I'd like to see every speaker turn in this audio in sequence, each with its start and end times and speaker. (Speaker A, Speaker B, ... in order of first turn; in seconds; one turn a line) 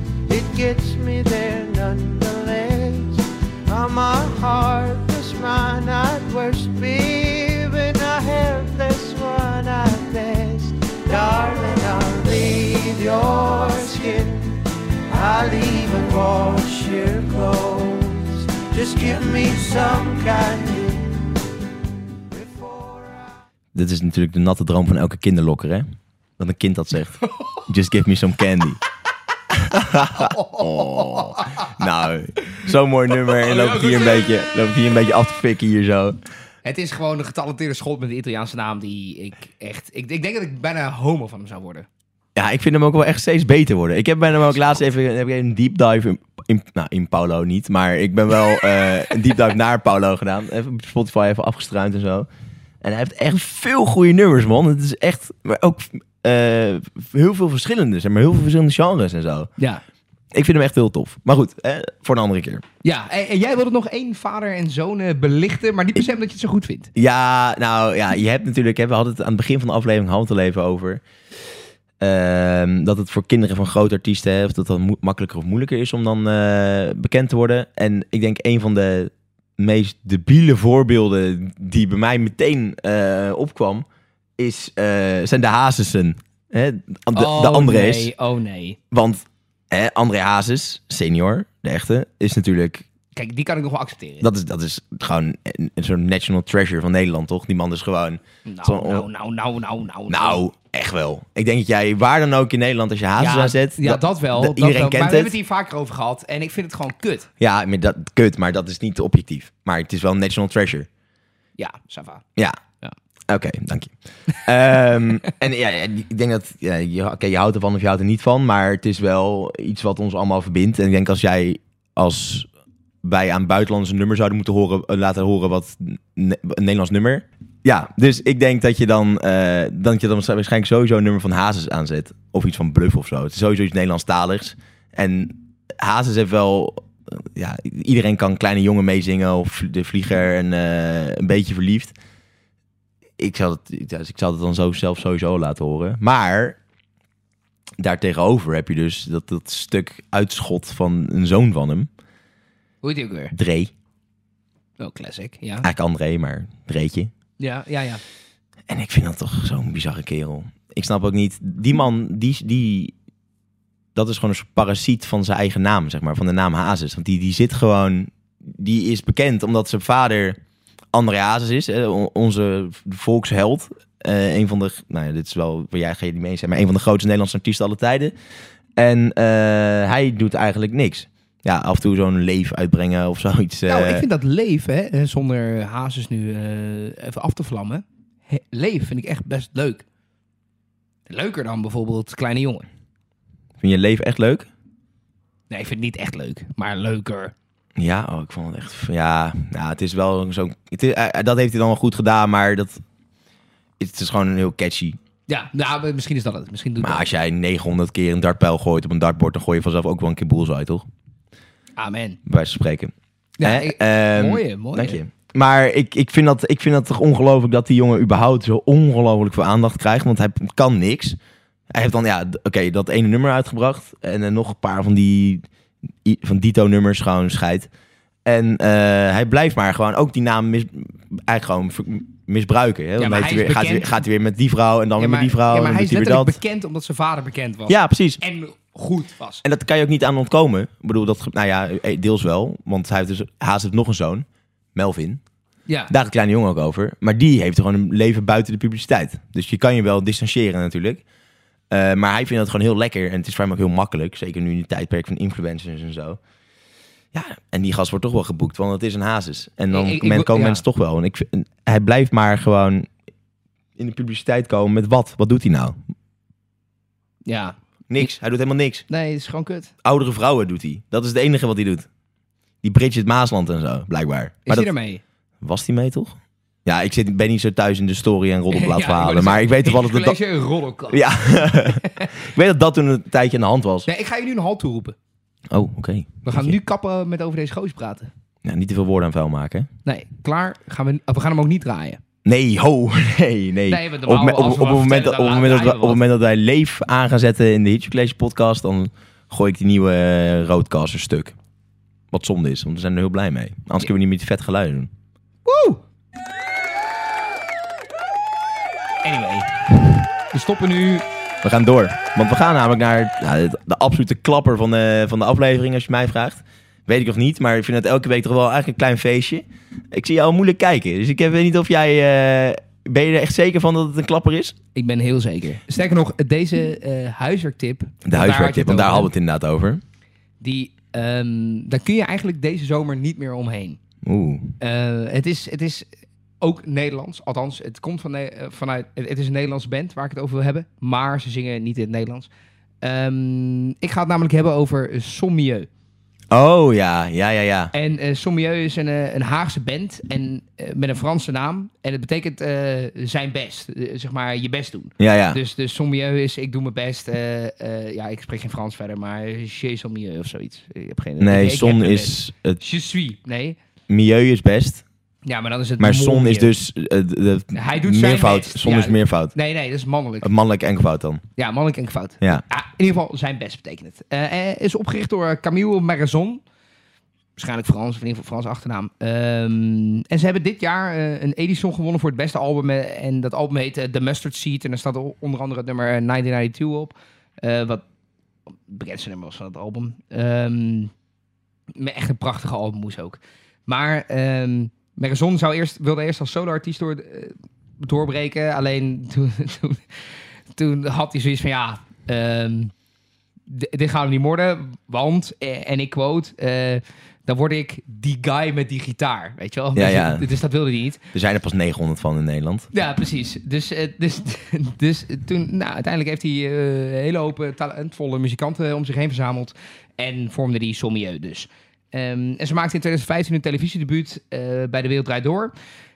Speaker A: 0.3-21.3
Speaker A: 22.3-23.3
Speaker B: 23.7-28.8
Speaker B: 29.5-36.2
Speaker C: 30.1-31.7
Speaker C: 33.4-34.2
Speaker C: 36.6-41.9
Speaker B: 42.3-52.3
Speaker B: 52.8-59.5
Speaker B: 60.3-62.6
Speaker C: 62.8-66.9
Speaker B: 66.9-71.0
Speaker B: 72.0-83.8
Speaker B: 84.4-88.1
Speaker C: 87.1-88.8
Speaker B: 88.9-92.8
Speaker C: 93.1-94.3
Speaker B: 94.2-99.1
Speaker C: 98.5-100.4
Speaker B: 100.1-105.3
Speaker C: 103.2-107.3
Speaker B: 107.4-110.9
Speaker C: 111.6-112.2
Speaker B: 113.3-122.5
Speaker B: 123.0-141.9
Speaker B: 143.2-146.6
Speaker B: 147.8-151.9
Speaker C: 152.8-153.3
Speaker B: 153.3-153.7
Speaker C: 154.8-155.7
Speaker B: 155.6-157.1
Speaker C: 157.4-158.0
Speaker B: 158.7-162.9
Speaker B: 163.9-170.4
Speaker B: 170.9-178.1
Speaker B: 178.8-184.1
Speaker C: 183.7-189.8
Speaker C: 191.1-192.7
Speaker B: 193.6-194.5
Speaker C: 195.5-197.3
Speaker B: 197.8-202.8
Speaker B: 203.8-205.0
Speaker C: 205.3-207.1
Speaker B: 206.8-210.9
Speaker C: 211.8-212.2
Speaker B: 212.2-221.2
Speaker C: 213.4-215.0
Speaker B: 221.7-225.4
Speaker B: 226.0-227.7
Speaker B: 228.2-236.4
Speaker C: 233.0-234.0
Speaker C: 235.0-239.4
Speaker B: 237.7-238.2
Speaker B: 239.4-245.2
Speaker C: 245.7-245.9
Speaker B: 245.9-251.0
Speaker B: 251.7-256.2
Speaker B: 257.1-262.9
Speaker C: 259.7-260.6
Speaker B: 263.8-265.8
Speaker C: 267.2-268.1
Speaker B: 267.9-268.9
Speaker C: 268.9-269.7
Speaker B: 269.8-271.9
Speaker B: 272.6-274.7
Speaker C: 274.4-275.0
Speaker B: 275.4-280.2
Speaker C: 278.5-282.1
Speaker B: 280.9-283.9
Speaker C: 283.9-284.9
Speaker B: 285.5-286.6
Speaker C: 286.2-288.1
Speaker B: 288.4-289.7
Speaker C: 289.9-292.0
Speaker B: 292.2-301.4
Speaker C: 293.7-296.0
Speaker B: 302.1-304.9
Speaker C: 305.4-305.8
Speaker C: 309.0-309.7
Speaker C: 310.3-311.0
Speaker B: 311.4-324.5
Speaker C: 324.7-329.1
Speaker B: 328.0-329.8
Speaker C: 330.4-333.8
Speaker B: 334.0-334.5
Speaker C: 334.6-335.9
Speaker C: 336.4-342.3
Speaker C: 342.8-345.7
Speaker B: 346.3-347.7
Speaker C: 347.7-363.6
Speaker B: 355.0-355.4
Speaker B: 361.2-362.6
Speaker B: 363.9-364.8
Speaker C: 365.2-366.5
Speaker B: 365.8-369.3
Speaker C: 367.5-370.3
Speaker B: 370.2-371.2
Speaker C: 371.4-376.4
Speaker C: 377.4-387.8
Speaker C: 388.5-390.9
Speaker C: 391.7-399.8
Speaker C: 400.6-402.7
Speaker C: 403.5-411.0
Speaker B: 409.7-410.3
Speaker B: 411.1-412.7
Speaker C: 412.7-425.5